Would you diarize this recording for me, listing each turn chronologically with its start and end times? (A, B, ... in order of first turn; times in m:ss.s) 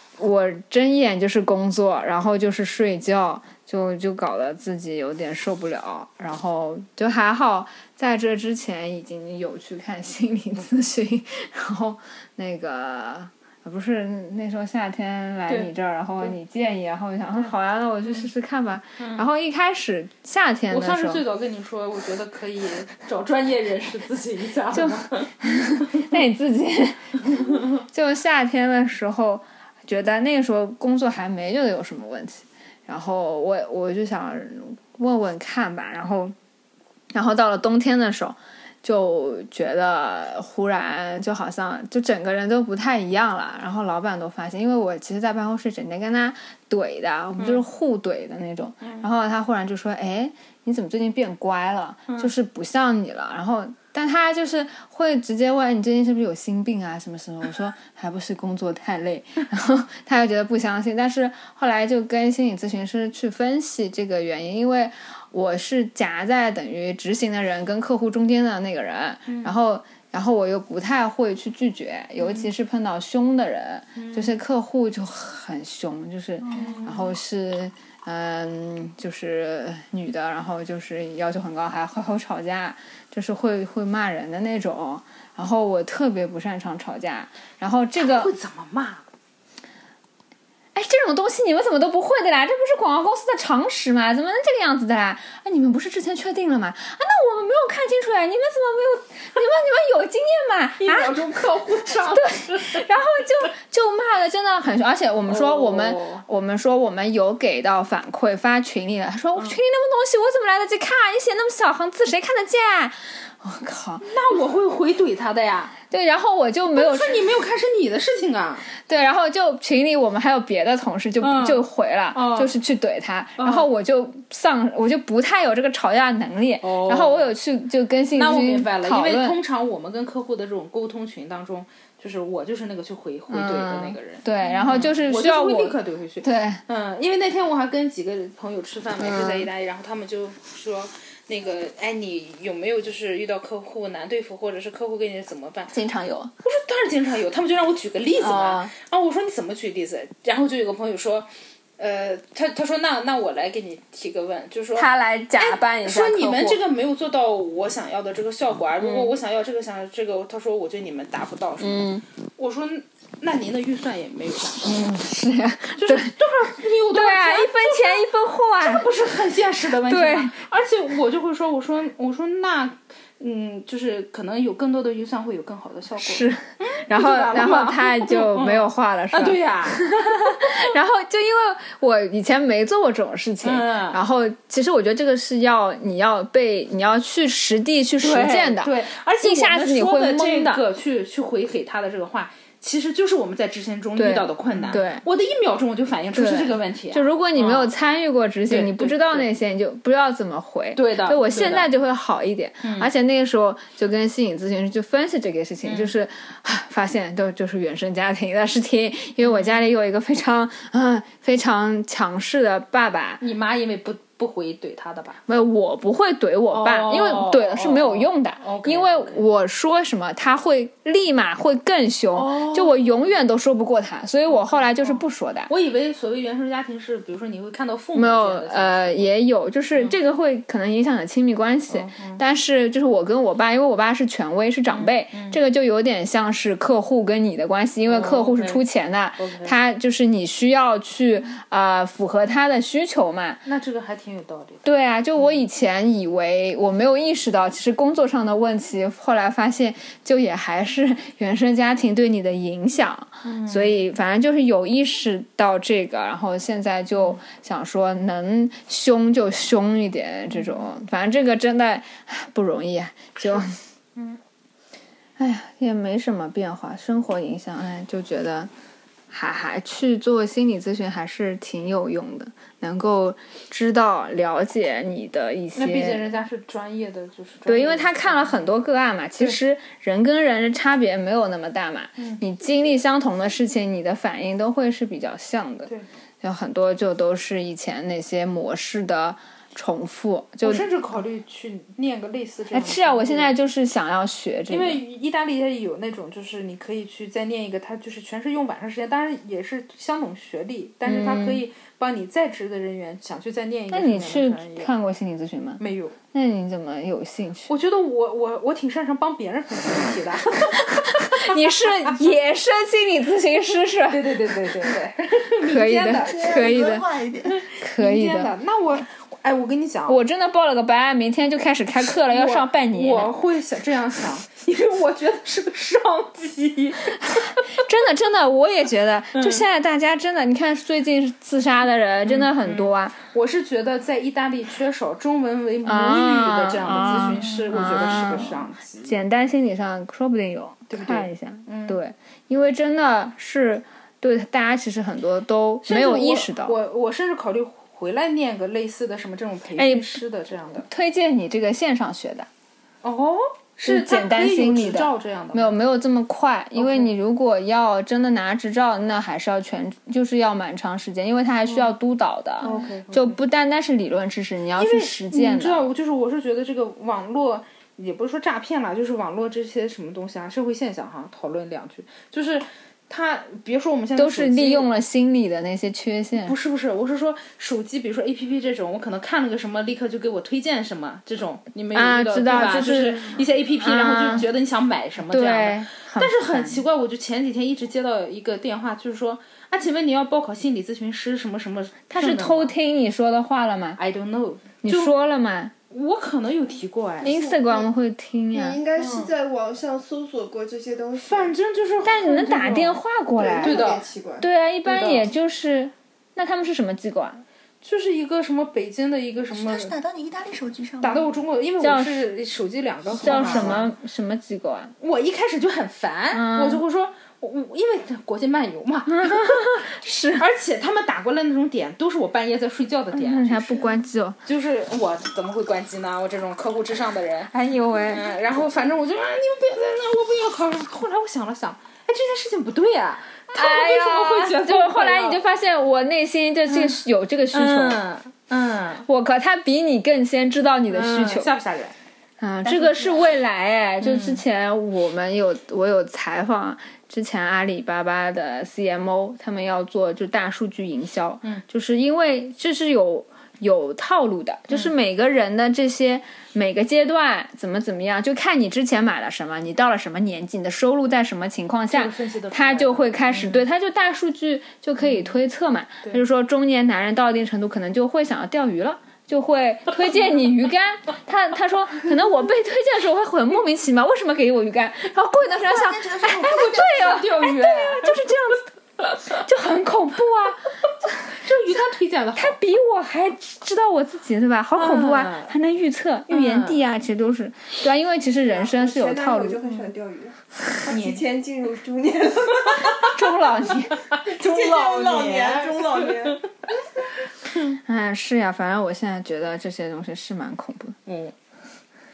0:00.2-0:21.2 A
0:19.0-0:19.2 B
0:20.7-0:25.8 B
0:24.7-0:36.3 A
0:27.3-0:27.6 B
0:37.1-1:28.3 A
0:47.4-0:47.6 B
1:09.3-1:09.5 B
1:12.2-1:12.5 B
1:14.0-1:14.3 B
1:16.4-1:17.1 B
1:28.0-1:29.0 B
1:30.7-1:41.2 A
1:40.8-1:42.8 B
1:41.9-1:54.3 A
1:45.3-1:46.2 B
1:54.0-1:55.7 B
1:55.9-1:57.2 A
1:56.7-1:58.7 B
1:58.7-2:09.4 A
2:01.2-2:02.5 B
2:03.4-2:03.7 B
2:06.6-2:07.3 B
2:08.1-2:25.7 B
2:13.3-2:16.6 A
2:19.0-2:19.5 A
2:25.7-2:26.3 A
2:26.4-2:34.9 B
2:28.2-2:28.7 A
2:34.8-2:36.6 A
2:35.4-2:41.9 B
2:38.8-2:39.1 A
2:41.6-2:42.0 A
2:42.4-2:44.8 B
2:44.6-2:46.2 A
2:45.8-2:48.1 B
2:46.9-2:48.9 A
2:48.6-3:00.6 B
2:49.9-2:50.4 A
2:56.0-3:10.6 A
3:03.4-3:04.0 B
3:08.0-3:17.7 B
3:14.0-3:15.0 A
3:16.1-3:33.2 A
3:18.5-3:19.3 B
3:20.7-3:21.7 B
3:22.6-3:22.9 B
3:25.6-3:25.9 B
3:29.2-3:29.6 B
3:33.2-3:35.2 B
3:35.3-3:45.5 A
3:36.5-3:39.2 B
3:42.1-3:42.9 B
3:44.3-3:49.1 B
3:47.9-4:03.4 A
3:51.7-3:52.2 B
3:54.7-3:55.4 B
3:57.9-3:58.6 B
3:59.2-3:59.5 B
4:03.4-4:04.6 B
4:04.6-4:23.6 A
4:13.2-4:13.8 B
4:20.3-4:20.6 B
4:25.2-4:28.5 A
4:29.1-4:36.0 A
4:35.5-4:38.5 B
4:37.5-4:45.7 A
4:46.2-4:50.6 A
4:50.4-4:53.3 B
4:52.5-4:54.8 A
4:54.5-5:04.7 B
5:00.8-5:01.4 A
5:03.7-5:05.6 A
5:05.6-5:06.0 B
5:06.1-5:07.5 A
5:07.5-5:12.0 B
5:10.5-5:14.3 A
5:13.9-5:16.5 B
5:15.4-5:16.9 A
5:16.0-5:17.4 C
5:17.3-5:20.0 B
5:17.5-5:18.3 A
5:19.9-5:23.1 A
5:21.8-5:27.6 B
5:27.1-5:33.0 A
5:29.2-5:29.4 B
5:32.0-5:39.0 B
5:35.6-5:46.5 A
5:40.7-5:41.8 B
5:45.6-5:50.7 B
5:49.6-5:50.0 A
5:50.6-5:52.3 A
5:52.8-5:55.6 B
5:53.6-6:05.6 A
5:56.6-5:56.9 B
6:02.4-6:03.2 B
6:04.6-6:14.7 B
6:14.0-6:16.3 A
6:16.2-6:32.5 B
6:21.7-6:24.3 A
6:25.1-6:26.6 A
6:31.9-6:33.8 A
6:33.8-6:34.9 B
6:34.6-6:35.5 A
6:35.7-6:37.2 B
6:37.0-6:38.6 A
6:37.0-6:37.7 D
6:38.3-6:41.3 D
6:38.8-6:39.1 B
6:41.0-6:42.8 B
6:41.8-6:43.7 A
6:43.2-6:44.2 D
6:43.4-6:43.9 B
6:44.2-6:47.2 A
6:44.6-6:45.1 B
6:47.6-6:49.7 B
6:49.3-6:51.1 C
6:50.8-6:53.7 B
6:51.6-6:52.0 A
6:53.0-6:54.7 A
6:53.2-6:53.6 C
6:54.8-7:07.3 B
6:56.1-6:56.6 A
6:58.9-7:00.2 A
7:02.9-7:04.2 A
7:07.3-7:08.0 A
7:07.9-7:15.2 B
7:13.3-7:17.8 A
7:16.5-7:16.8 B
7:17.3-7:18.8 B
7:18.8-7:21.3 A
7:20.7-7:21.7 B
7:22.2-7:58.4 A
7:23.8-7:24.2 B
7:41.7-7:43.4 B
7:44.8-7:45.1 B
7:55.2-7:57.0 C
7:56.2-7:58.0 B
7:59.0-8:00.4 A
8:01.0-8:02.4 B
8:02.2-8:09.4 A
8:04.6-8:05.3 B
8:06.1-8:06.6 B
8:08.2-8:13.0 D
8:09.4-8:09.7 B
8:10.7-8:11.1 B
8:12.8-8:15.3 A
8:13.9-8:16.2 B
8:14.0-8:16.2 D
8:17.5-8:20.8 A
8:20.8-8:21.1 B